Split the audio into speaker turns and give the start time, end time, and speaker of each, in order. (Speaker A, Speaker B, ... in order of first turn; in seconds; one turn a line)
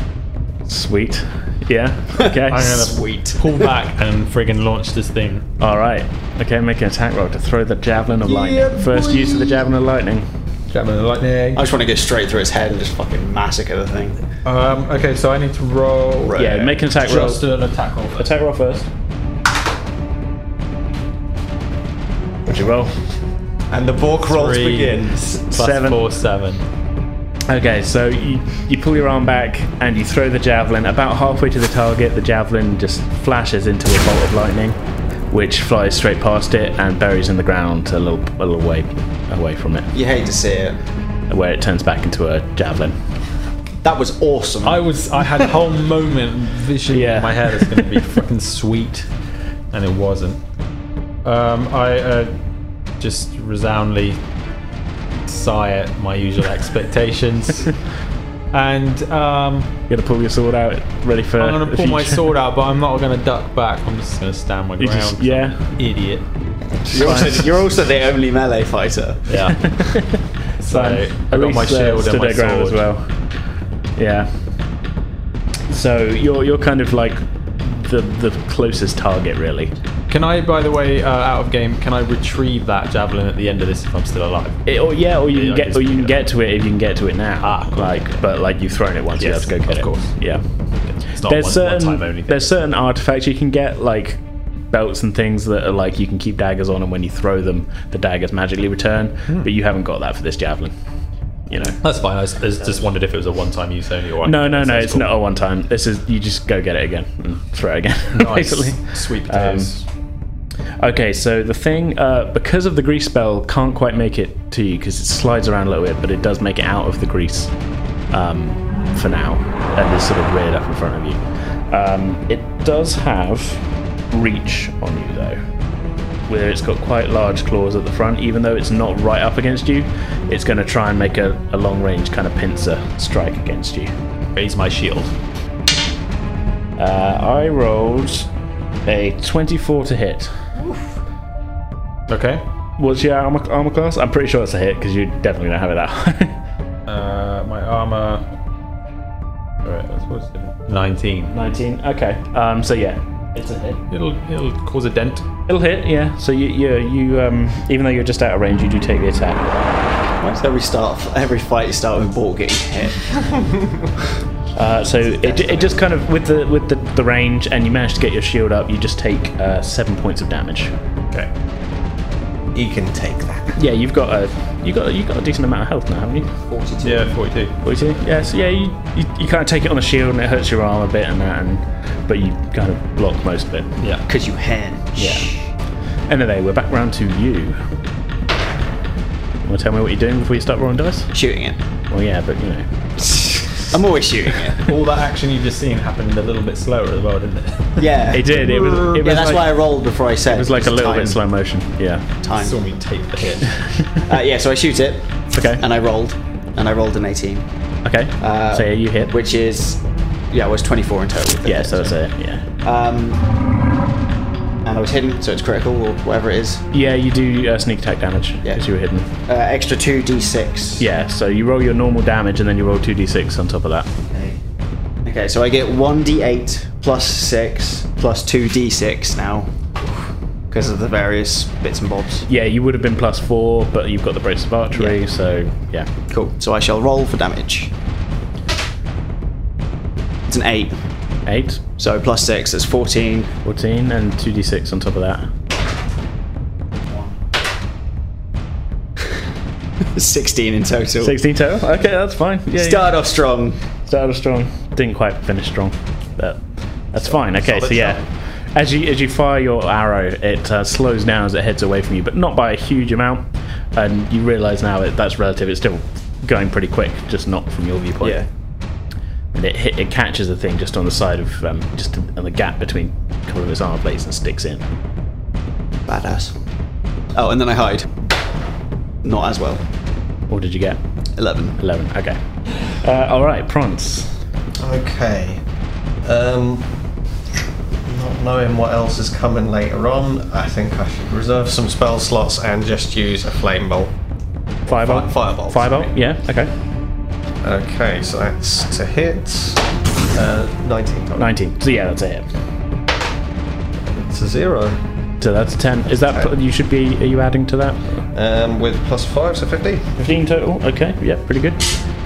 Speaker A: 0.7-2.9
Speaker B: 2.2-3.6
Speaker C: 2.5-5.5
Speaker A: 5.6-10.3
Speaker B: 8.4-9.2
Speaker C: 8.5-9.2
Speaker C: 10.7-11.7
Speaker B: 11.6-14.2
Speaker C: 14.4-18.3
Speaker B: 16.2-16.7
Speaker A: 16.3-17.4
Speaker A: 18.2-18.9
Speaker A: 22.5-22.9
Speaker D: 23.7-25.2
Speaker C: 24.2-26.6
Speaker A: 25.5-26.0
Speaker A: 27.5-34.8
Speaker A: 35.3-39.9
Speaker B: 39.9-40.8
Speaker A: 41.3-43.0
Speaker B: 43.8-44.9
Speaker C: 44.6-49.1
Speaker A: 46.9-47.8
Speaker C: 49.7-50.4
Speaker C: 51.2-52.3
Speaker C: 53.0-54.2
Speaker C: 55.3-57.8
Speaker C: 58.5-59.7
Speaker A: 59.9-62.2
Speaker C: 61.4-66.2
Speaker A: 64.8-65.6
Speaker B: 66.9-69.4
Speaker A: 66.9-67.5
Speaker C: 69.3-69.8
Speaker A: 69.5-73.1
Speaker C: 70.6-72.8
Speaker A: 74.0-74.3
Speaker A: 75.7-79.7
Speaker C: 80.1-84.7
Speaker A: 84.7-90.4
Speaker C: 85.2-86.2
Speaker C: 87.4-88.2
Speaker C: 89.2-90.2
Speaker C: 90.8-92.5
Speaker A: 91.2-100.7
Speaker A: 101.5-101.8
Speaker C: 101.8-105.1
Speaker A: 104.2-109.8
Speaker C: 108.2-109.8
Speaker A: 110.8-117.5
Speaker A: 118.1-125.4
Speaker A: 126.3-133.9
Speaker C: 134.3-135.1
Speaker A: 136.8-138.3
Speaker A: 138.9-140.3
Speaker C: 142.1-142.4
Speaker A: 142.8-146.4
Speaker C: 146.9-148.3
Speaker C: 149.6-151.3
Speaker A: 151.3-153.8
Speaker C: 153.9-155.3
Speaker A: 155.5-159.5
Speaker B: 160.2-163.1
Speaker A: 164.6-170.7
Speaker B: 165.0-165.8
Speaker D: 172.5-173.5
Speaker A: 173.6-176.3
Speaker B: 176.5-177.2
Speaker C: 176.8-177.6
Speaker A: 177.6-183.7
Speaker C: 183.8-184.0
Speaker B: 184.1-185.5
Speaker A: 185.0-185.4
Speaker A: 186.1-187.6
Speaker A: 189.4-191.1
Speaker B: 191.1-191.6
Speaker A: 191.9-192.7
Speaker B: 193.1-194.6
Speaker C: 194.6-199.0
Speaker B: 197.8-201.2
Speaker A: 198.1-199.5
Speaker A: 200.3-202.1
Speaker B: 202.2-202.6
Speaker C: 202.3-203.6
Speaker B: 204.1-207.5
Speaker A: 205.3-205.6
Speaker A: 207.8-209.1
Speaker B: 208.2-212.0
Speaker A: 211.4-212.4
Speaker B: 212.6-213.2
Speaker B: 214.6-216.7
Speaker A: 216.7-219.1
Speaker B: 219.3-220.9
Speaker A: 220.8-223.9
Speaker B: 224.1-224.4
Speaker B: 225.1-229.5
Speaker B: 230.5-232.3
Speaker A: 232.3-235.9
Speaker B: 234.7-235.0
Speaker B: 236.1-237.7
Speaker B: 240.3-240.8
Speaker A: 241.3-241.6
Speaker B: 241.8-243.3
Speaker A: 243.4-245.3
Speaker B: 249.8-251.2
Speaker A: 251.0-252.9
Speaker B: 252.5-253.6
Speaker A: 253.9-256.4
Speaker A: 256.9-258.0
Speaker D: 257.6-257.9
Speaker A: 258.5-268.2
Speaker B: 268.0-268.3
Speaker A: 269.3-274.6
Speaker B: 275.9-276.4
Speaker B: 277.1-277.9
Speaker B: 279.0-279.6
Speaker A: 280.3-280.8
Speaker B: 281.2-281.6
Speaker A: 281.6-284.2
Speaker D: 284.6-285.4
Speaker D: 286.0-286.7
Speaker D: 287.9-293.9
Speaker D: 294.7-295.9
Speaker A: 294.7-296.5
Speaker D: 297.4-301.3
Speaker A: 301.2-302.3
Speaker D: 303.8-304.8
Speaker A: 305.2-308.1
Speaker D: 306.0-306.3
Speaker D: 308.1-309.9
Speaker A: 310.0-311.7